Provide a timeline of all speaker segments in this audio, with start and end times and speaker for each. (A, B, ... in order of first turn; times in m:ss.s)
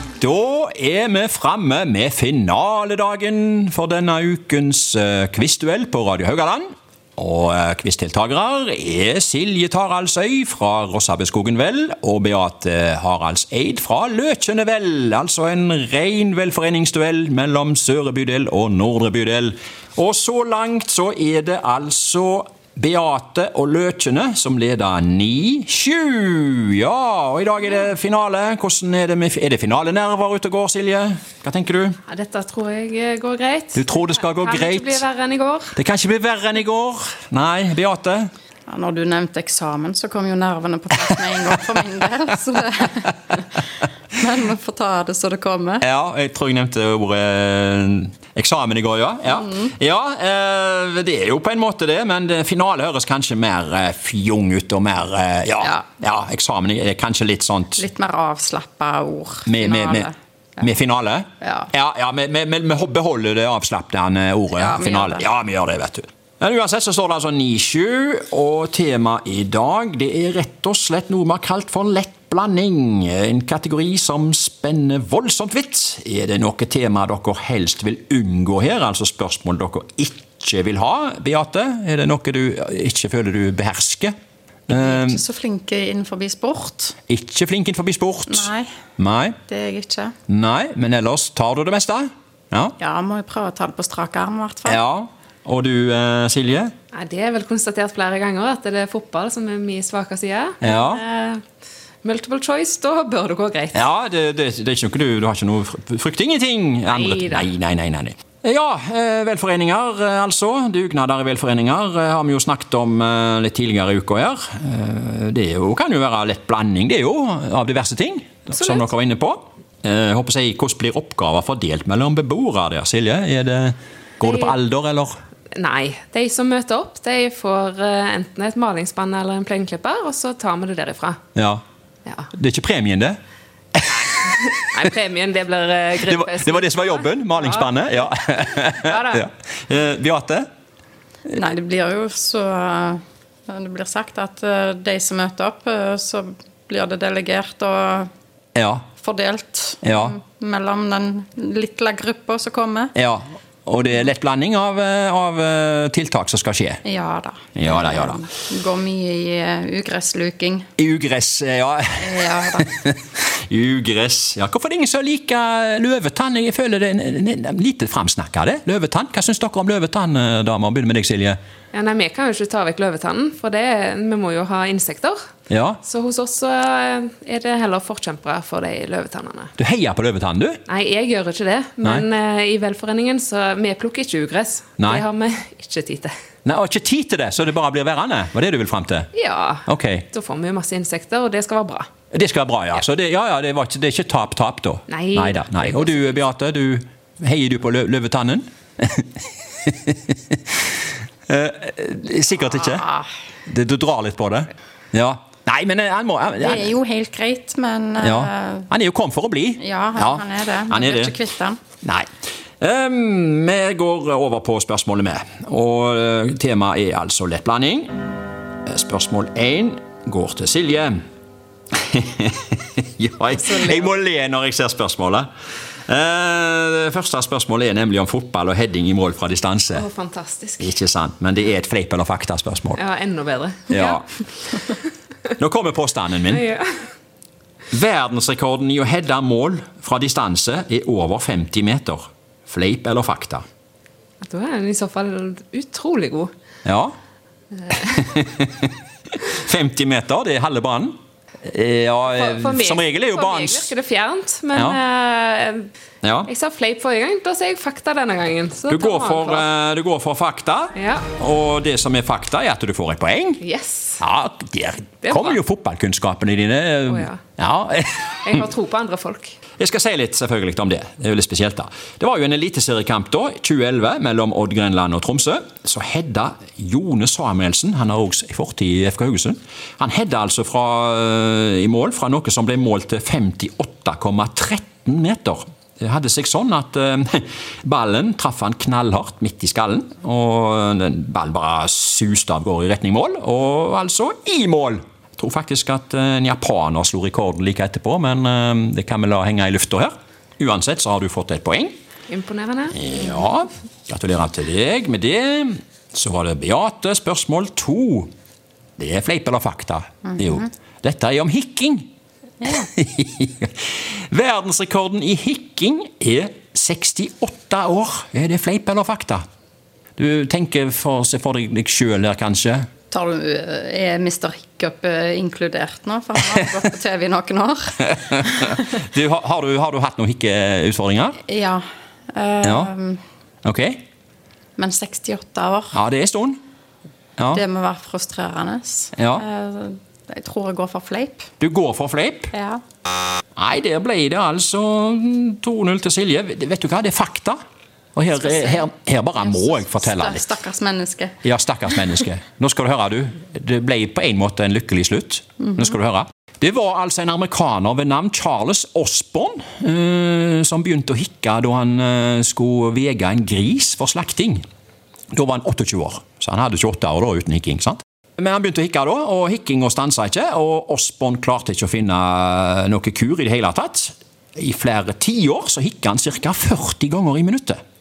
0:00.2-0:32.0 A
0:32.1-0:35.7 B
0:33.8-0:35.0 A
0:35.7-0:38.3 A
0:38.7-0:43.4 C
0:44.1-0:45.8 C
0:45.8-0:57.8 A
0:49.3-0:49.7 C
0:57.8-1:00.1 C
0:59.4-1:24.1 A
1:01.4-1:01.7 C
1:04.6-1:05.2 C
1:24.7-1:25.2 A
1:24.7-1:27.0 C
1:27.1-1:29.4 A
1:28.3-1:28.7 C
1:29.5-1:30.1 C
1:30.3-1:32.8 A
1:32.8-1:34.8 C
1:34.6-1:36.7 A
1:36.9-1:41.3 B
1:40.6-1:41.0 A
1:42.0-1:43.8 B
1:43.7-2:05.2 A
1:46.9-1:47.5 B
1:58.6-1:58.9 B
2:04.2-2:04.5 B
2:05.5-2:11.2 B
2:11.3-2:11.6 A
2:12.3-2:13.2 A
2:13.7-2:14.2 A
2:14.0-2:17.7 B
2:16.0-2:20.5 A
2:18.8-2:19.2 B
2:21.3-2:28.1 C
2:28.5-2:28.8 A
2:29.0-2:32.9 C
2:29.8-2:30.2 A
2:32.9-2:36.8 A
2:36.8-2:40.7 C
2:37.5-2:38.2 A
2:40.8-2:51.4 A
2:42.0-2:42.7 C
2:51.7-2:55.2 B
2:55.5-2:55.8 A
2:55.8-2:59.5 B
2:59.6-3:00.6 A
3:00.7-3:06.1 B
3:04.8-3:05.0 A
3:06.4-3:09.1 A
3:09.1-3:11.9 B
3:09.6-3:10.0 A
3:12.1-3:20.8 A
3:14.9-3:16.1 B
3:21.3-3:22.9 A
3:22.8-3:23.1 C
3:23.4-3:26.8 A
3:26.4-3:28.7 C
3:28.0-3:31.2 A
3:29.6-3:31.6 C
3:32.6-3:37.9 A
3:38.6-3:41.0 A
3:41.7-3:45.3 A
3:43.5-3:43.8 B
3:45.9-3:49.8 A
3:49.7-3:50.8 B
3:50.6-3:52.8 A
3:52.8-3:54.8 B
3:53.7-3:54.0 A
3:55.4-3:56.4 A
3:56.3-3:56.7 B
3:57.7-4:03.4 A
4:04.2-4:06.3 B
4:06.6-4:06.9 A
4:07.6-4:08.1 B
4:08.0-4:08.7 A
4:09.3-4:13.7 A
4:12.0-4:15.7 B
4:14.5-4:14.8 A
4:16.0-4:16.3 A
4:16.2-4:19.5 B
4:18.7-4:23.4 A
4:20.7-4:21.1 B
4:23.4-4:24.0 B
4:24.0-4:28.4 A
4:25.0-4:25.4 B
4:26.9-4:27.2 B
4:28.2-4:29.4 B
4:29.6-5:01.7 A
5:02.1-5:02.8 B
5:02.7-5:08.1 A
5:08.8-5:11.9 A
5:12.4-5:19.2 A
5:20.0-5:22.6 A
5:22.9-5:28.5 C
5:28.0-5:31.2 A
5:31.3-5:33.0 C
5:32.4-5:32.7 A
5:33.4-5:33.8 A
5:34.6-5:35.8 C
5:35.7-5:36.4 A
5:37.2-5:37.4 A
5:37.3-5:41.3 C
5:38.9-5:39.2 A
5:41.4-5:42.3 A
5:42.3-5:42.6 C
5:43.4-5:47.4 A
5:47.9-5:50.3 A
5:49.4-5:51.2 C
5:51.2-6:04.4 A
6:05.1-6:17.6 A